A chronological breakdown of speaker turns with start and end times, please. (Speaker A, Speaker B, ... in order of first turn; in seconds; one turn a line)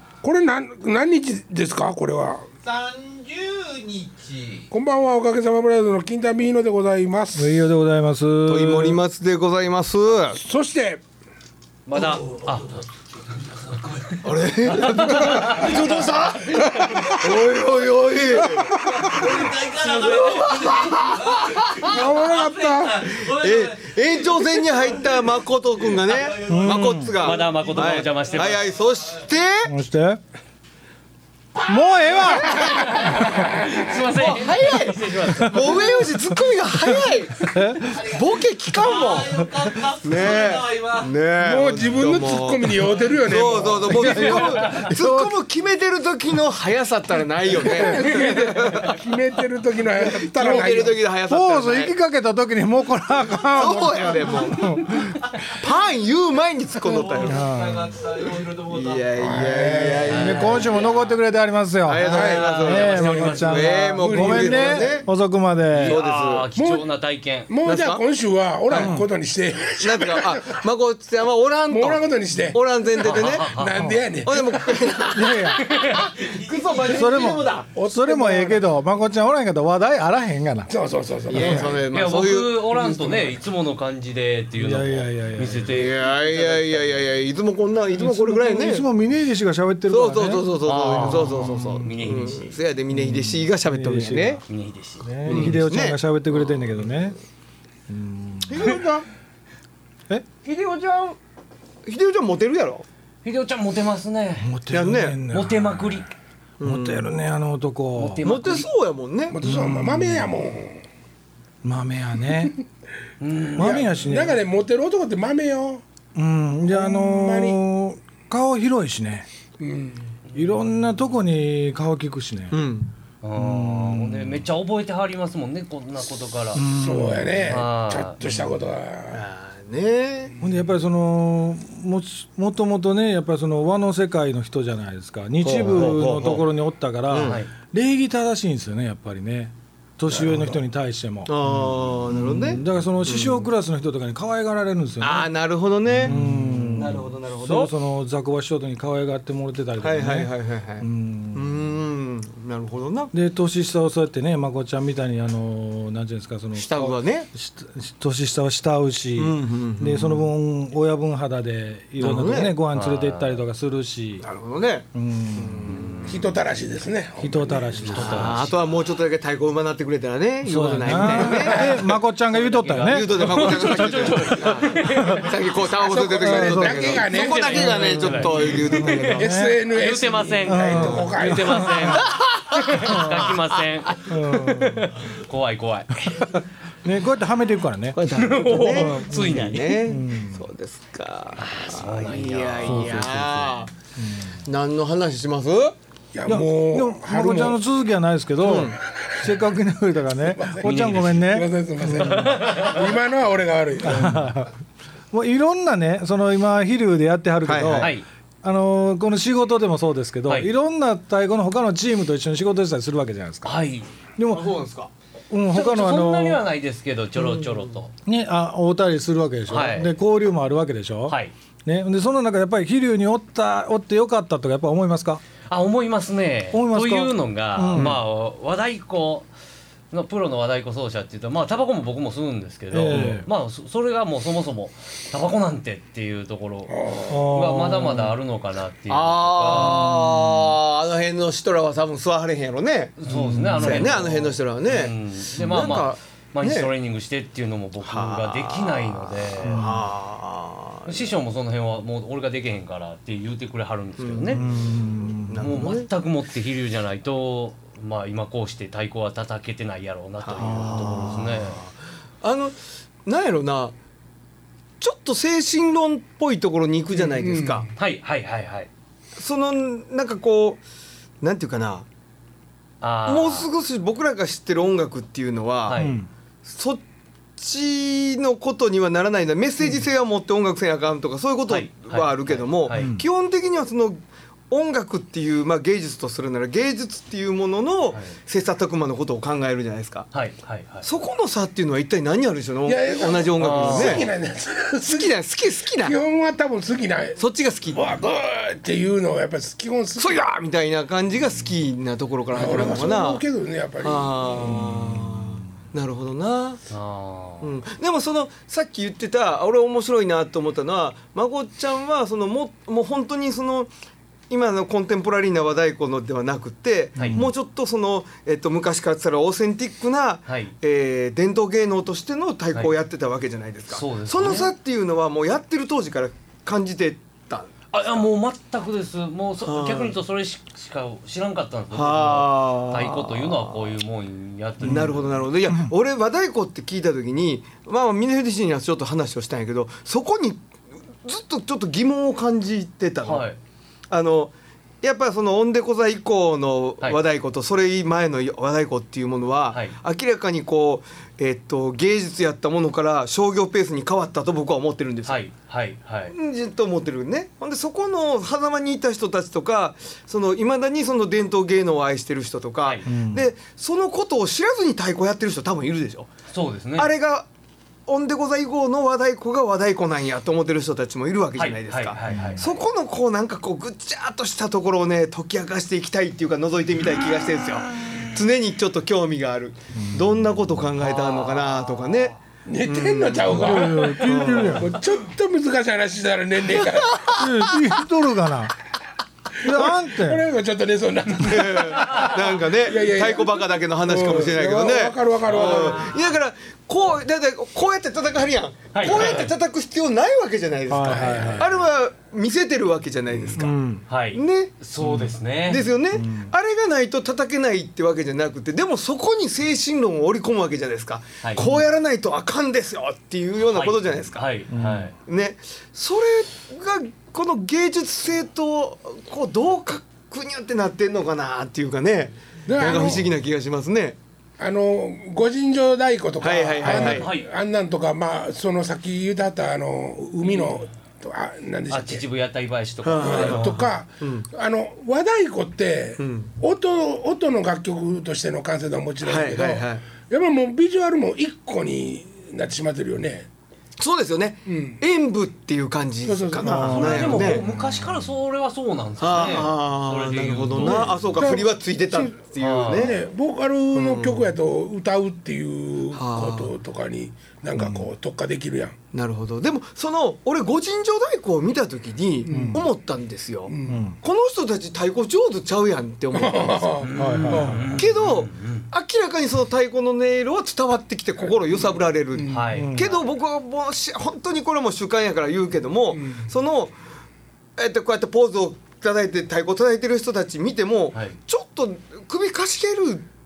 Speaker A: 0.2-2.5
Speaker B: 2.6-4.7
Speaker A: 4.7-7.7
Speaker C: 7.3-9.0
Speaker D: 8.5-10.4
Speaker A: 10.3-11.0
Speaker E: 11.8-12.8
Speaker B: 11.9-14.8
Speaker D: 14.2-18.8
Speaker E: 14.7-16.7
Speaker A: 18.6-19.5
Speaker B: 18.8-28.6
Speaker A: 20.1-21.0
Speaker D: 20.1-20.7
Speaker A: 21.5-23.2
Speaker D: 23.3-29.7
Speaker C: 26.5-27.1
Speaker E: 27.2-28.7
Speaker C: 29.7-30.2
Speaker C: 31.6-32.8
Speaker D: 32.2-33.4
Speaker E: 32.5-36.1
Speaker A: 33.0-33.9
Speaker D: 34.1-39.4
Speaker C: 35.2-35.7
Speaker C: 37.0-38.0
Speaker B: 37.8-41.1
Speaker D: 40.0-49.0
Speaker A: 41.4-44.2
Speaker C: 43.9-45.3
Speaker E: 44.1-44.8
Speaker A: 47.5-51.0
Speaker C: 47.6-48.0
Speaker D: 50.0-51.9
Speaker C: 51.3-54.0
Speaker D: 53.5-54.7
Speaker A: 53.5-54.1
Speaker B: 53.8-55.6
Speaker C: 54.5-55.1
Speaker D: 55.4-57.5
Speaker B: 56.8-59.2
Speaker C: 57.3-57.9
Speaker D: 58.7-60.7
Speaker A: 59.2-60.5
Speaker E: 60.1-61.1
Speaker C: 60.1-65.9
Speaker B: 60.5-61.0
Speaker D: 61.8-65.1
Speaker E: 62.0-63.8
Speaker A: 62.1-65.0
Speaker E: 65.7-67.5
Speaker D: 65.8-66.5
Speaker A: 66.5-66.9
Speaker A: 67.5-70.6
Speaker D: 67.6-68.0
Speaker D: 68.7-68.9
Speaker C: 68.8-69.0
Speaker D: 69.8-73.5
Speaker A: 71.7-75.3
Speaker E: 73.0-73.8
Speaker D: 74.2-77.7
Speaker C: 75.1-75.7
Speaker E: 75.6-76.1
Speaker B: 75.9-77.8
Speaker C: 76.8-80.7
Speaker A: 77.7-78.7
Speaker A: 80.7-81.8
Speaker D: 81.3-83.3
Speaker E: 81.9-86.8
Speaker C: 84.5-85.9
Speaker D: 85.7-88.9
Speaker C: 88.0-92.2
Speaker D: 89.9-94.4
Speaker E: 90.6-92.6
Speaker C: 92.9-94.4
Speaker E: 94.4-95.5
Speaker C: 95.0-97.1
Speaker D: 95.2-96.5
Speaker C: 97.9-98.8
Speaker D: 98.4-99.0
Speaker D: 100.4-101.2
Speaker D: 101.8-102.8
Speaker E: 103.2-104.5
Speaker C: 104.4-106.0
Speaker D: 104.7-105.2
Speaker E: 105.3-106.1
Speaker D: 106.6-107.1
Speaker C: 106.6-108.2
Speaker E: 107.9-108.7
Speaker D: 108.2-109.4
Speaker A: 109.3-110.8
Speaker C: 109.4-110.3
Speaker C: 111.6-112.5
Speaker E: 113.2-113.9
Speaker A: 113.5-115.8
Speaker C: 113.6-114.4
Speaker C: 116.1-119.3
Speaker A: 116.7-117.6
Speaker A: 119.6-120.0
Speaker C: 120.3-122.5
Speaker D: 122.5-122.9
Speaker E: 123.2-126.6
Speaker C: 123.3-124.4
Speaker C: 126.5-127.5
Speaker A: 126.7-129.2
Speaker E: 127.4-128.2
Speaker D: 129.1-130.4
Speaker C: 130.4-145.3
Speaker D: 135.4-136.5
Speaker D: 137.1-137.4
Speaker E: 137.1-137.5
Speaker A: 140.1-140.6
Speaker D: 141.2-143.5
Speaker D: 145.0-147.7
Speaker C: 145.9-151.5
Speaker D: 149.8-153.1
Speaker C: 153.1-164.2
Speaker D: 156.5-157.3
Speaker D: 159.2-160.3
Speaker D: 162.0-162.5
Speaker E: 162.7-163.4
Speaker D: 164.2-166.1
Speaker C: 164.9-165.8
Speaker E: 165.7-166.3
Speaker A: 166.1-167.9
Speaker C: 167.2-168.4
Speaker E: 167.8-168.6
Speaker D: 167.9-171.8
Speaker C: 170.4-173.7
Speaker A: 171.2-171.9
Speaker E: 171.2-175.3
Speaker D: 172.8-179.3
Speaker C: 174.9-175.3
Speaker A: 175.8-177.9
Speaker C: 176.2-177.1
Speaker E: 176.9-186.1
Speaker C: 178.0-179.6
Speaker A: 179.2-181.8
Speaker C: 180.4-182.1
Speaker D: 180.7-181.1
Speaker D: 181.9-183.6
Speaker C: 182.7-183.3
Speaker C: 184.1-184.9
Speaker C: 186.8-188.0
Speaker D: 187.9-193.7
Speaker E: 188.1-189.8
Speaker C: 188.5-190.4
Speaker E: 191.4-193.0
Speaker C: 192.7-194.3
Speaker D: 194.4-195.7
Speaker A: 196.1-197.6
Speaker C: 196.2-202.3
Speaker D: 198.4-198.8
Speaker A: 200.2-204.3
Speaker E: 200.6-201.4
Speaker E: 201.9-202.9
Speaker C: 203.8-204.5
Speaker C: 205.1-213.5
Speaker D: 207.4-207.9
Speaker E: 207.8-208.0
Speaker E: 210.2-210.5
Speaker E: 213.4-213.9
Speaker C: 214.2-214.4
Speaker D: 214.3-214.9
Speaker C: 215.3-216.4
Speaker E: 215.5-217.9
Speaker D: 217.2-217.7
Speaker C: 218.1-225.2
Speaker E: 219.5-219.9
Speaker E: 221.1-221.3
Speaker E: 225.5-229.3
Speaker C: 226.5-228.0
Speaker E: 229.9-239.8
Speaker C: 232.7-233.2
Speaker A: 236.7-237.4
Speaker C: 237.1-238.1
Speaker D: 238.9-242.9
Speaker C: 239.5-240.3
Speaker E: 243.0-249.7
Speaker C: 243.1-243.9
Speaker D: 243.6-246.7
Speaker D: 247.8-251.1
Speaker C: 249.4-249.8
Speaker E: 250.8-254.4
Speaker D: 254.0-255.9
Speaker C: 254.3-255.6
Speaker E: 255.4-261.6
Speaker D: 260.2-263.7
Speaker C: 260.4-261.1
Speaker D: 264.8-267.7
Speaker A: 266.9-267.7
Speaker E: 267.8-268.7
Speaker D: 269.2-270.6
Speaker D: 271.2-271.9
Speaker E: 272.8-273.5
Speaker D: 273.1-275.9
Speaker E: 275.6-276.0
Speaker C: 275.8-276.1
Speaker D: 276.4-276.8
Speaker D: 277.4-290.1
Speaker E: 281.5-282.9
Speaker C: 282.7-283.0
Speaker E: 290.1-290.9
Speaker D: 290.8-294.1
Speaker A: 292.6-295.1
Speaker E: 293.4-294.1
Speaker D: 294.8-296.0
Speaker A: 295.8-297.2
Speaker D: 297.2-297.9
Speaker A: 297.7-300.2
Speaker D: 300.0-303.2
Speaker A: 302.3-304.6
Speaker D: 303.8-306.6
Speaker C: 304.5-305.3
Speaker E: 306.7-307.5
Speaker D: 307.4-313.7
Speaker D: 314.3-327.5
Speaker E: 316.9-317.2
Speaker C: 317.0-317.3
Speaker E: 320.3-320.5
Speaker E: 323.7-324.5
Speaker E: 327.7-335.1
Speaker D: 329.4-329.9
Speaker D: 331.7-333.8
Speaker D: 334.6-340.4
Speaker C: 334.6-334.9
Speaker D: 341.0-343.3
Speaker E: 343.0-343.4
Speaker D: 343.9-355.2
Speaker E: 355.1-356.1
Speaker D: 356.1-366.1
Speaker C: 362.9-363.2
Speaker E: 366.3-366.9
Speaker D: 366.8-367.3
Speaker D: 367.9-384.6
Speaker E: 371.4-372.4
Speaker C: 372.1-372.4
Speaker C: 379.8-380.2
Speaker E: 380.9-381.4
Speaker A: 382.4-387.4
Speaker C: 383.3-384.7
Speaker C: 387.1-388.6
Speaker A: 389.4-395.9
Speaker C: 389.4-390.2
Speaker D: 391.2-403.6
Speaker E: 391.8-392.1
Speaker E: 395.3-395.9
Speaker E: 398.7-399.3
Speaker C: 400.7-401.5
Speaker A: 400.8-401.5
Speaker C: 403.4-403.8
Speaker E: 403.9-405.7
Speaker D: 404.1-404.5
Speaker C: 404.8-405.2
Speaker D: 405.4-414.2
Speaker C: 405.9-406.3
Speaker E: 413.4-414.9
Speaker C: 414.5-414.9
Speaker D: 415.0-424.0
Speaker A: 422.4-423.1
Speaker A: 424.4-432.0
Speaker D: 426.2-427.1
Speaker E: 426.6-427.3
Speaker E: 431.7-433.6
Speaker D: 432.8-434.3
Speaker A: 433.0-443.3
Speaker D: 436.0-436.3
Speaker D: 439.0-439.8
Speaker D: 443.8-447.4
Speaker A: 444.4-444.8
Speaker A: 446.0-447.2
Speaker C: 446.4-447.9
Speaker E: 446.6-451.0
Speaker D: 449.0-452.9
Speaker A: 450.6-458.8
Speaker E: 452.4-452.9
Speaker D: 453.7-454.3
Speaker D: 455.9-456.5
Speaker C: 457.6-457.9
Speaker D: 458.9-476.7
Speaker A: 462.2-462.7
Speaker C: 462.3-462.6
Speaker A: 463.5-463.9
Speaker C: 463.7-463.9
Speaker A: 466.1-467.7
Speaker E: 466.8-468.7
Speaker C: 466.9-467.8
Speaker A: 471.2-472.6
Speaker E: 472.3-473.0
Speaker C: 472.5-472.8
Speaker A: 475.9-476.3
Speaker D: 477.6-483.1